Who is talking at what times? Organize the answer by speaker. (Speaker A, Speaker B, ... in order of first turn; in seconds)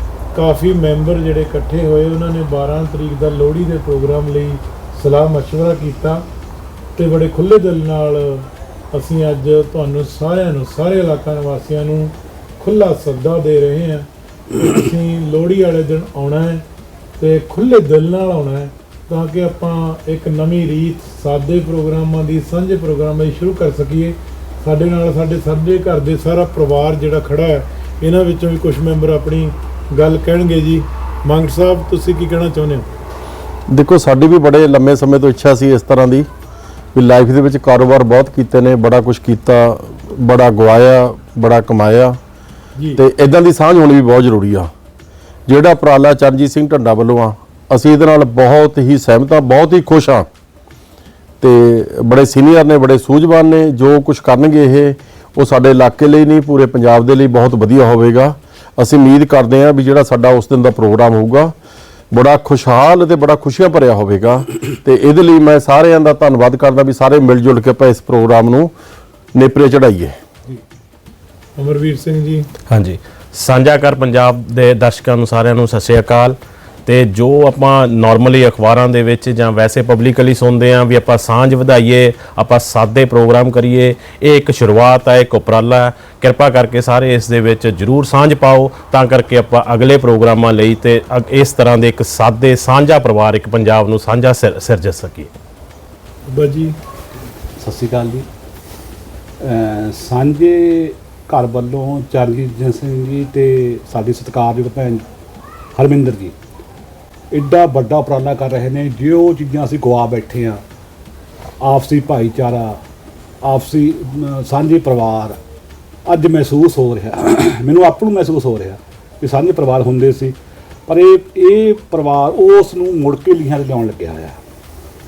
Speaker A: 0.3-6.2, 7.0-16.6, 17.2-32.9, 42.8-43.0, 71.6-72.5, 96.3-96.8
Speaker B: 33.7-36.3, 36.9-42.2, 43.0-44.7, 45.5-50.3, 51.4-61.5, 62.1-68.7, 69.3-70.2
Speaker C: 72.7-95.3
Speaker D: 97.6-98.3, 99.4-105.0, 105.8-106.4, 107.3-110.6, 111.6-112.8, 113.4-115.4, 116.1-120.4, 120.9-124.4